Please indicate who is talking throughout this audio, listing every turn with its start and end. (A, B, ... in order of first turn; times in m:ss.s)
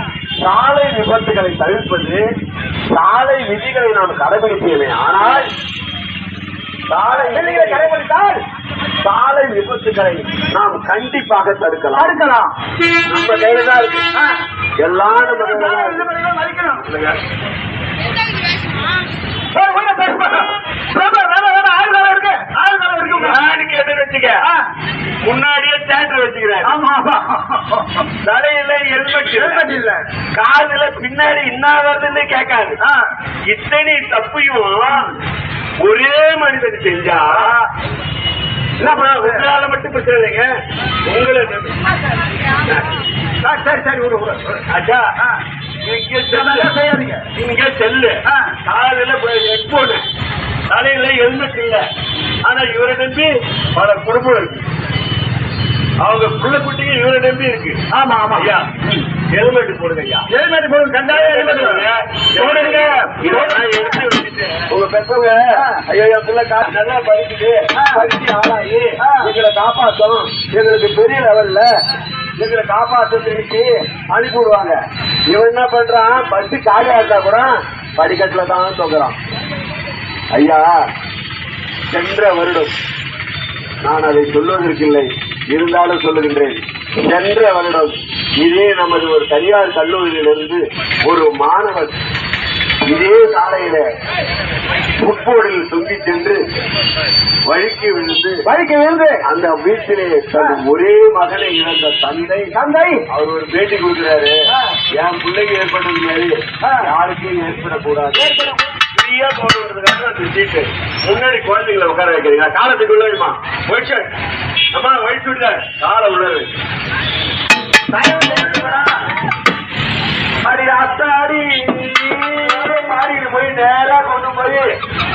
0:00.4-0:02.2 A
0:02.9-0:05.5 A
0:06.9-0:07.9 A
0:07.1-0:08.4 B
0:09.0-0:12.2 A
0:12.0-0:12.5 B
0:13.1-0:14.0 A
0:14.8-0:16.1 A
0:15.2-0:16.9 B
0:16.8-0:17.2 A
0:19.5-0:23.4 B
0:23.1-0:24.5 A
0:24.4-0:24.7 B
0:25.2-0:26.8 A
0:26.6-0:28.1 B
0:28.2-0:29.7 A
0:29.3-0:30.0 B
0:30.3-0:32.8 A
0:32.8-0:33.1 B
0:33.5-0:35.1 A
0:34.9-0:35.1 B
0:35.8-0:37.6 A
0:37.3-0:37.7 B
0:38.8-0:40.5 A
0:38.8-0:39.5 B
0:41.1-0:41.9 A
0:43.4-0:45.4 B
0:44.7-0:45.1 A
0:45.8-0:46.7 A
0:46.3-0:47.3 B
0:47.3-0:50.0 A
0:48.3-0:48.6 B
0:50.7-0:51.8 A
0:52.4-0:54.6 A
0:56.0-1:00.3 A
0:57.9-0:59.0 B
1:00.3-1:03.6 B
1:01.1-1:11.7 A
1:05.5-1:05.8 B
1:07.7-1:08.0 B
1:09.0-1:09.3 B
1:12.4-1:19.2 A
1:20.3-1:20.7 A
1:21.9-1:22.7 A
1:23.8-1:32.0 A
1:32.8-1:33.9 A
1:35.0-1:36.4 A
1:37.5-1:38.4 A
1:38.4-1:39.2 B
1:39.2-1:42.5 A
1:42.5-1:43.0 B
1:43.1-1:44.4 A
1:44.5-1:44.8 B
1:45.0-1:54.1 A
1:46.6-1:46.9 B
1:48.1-1:48.6 B
1:54.7-1:56.5 A
1:57.9-1:59.0 B
2:00.4-2:04.7 A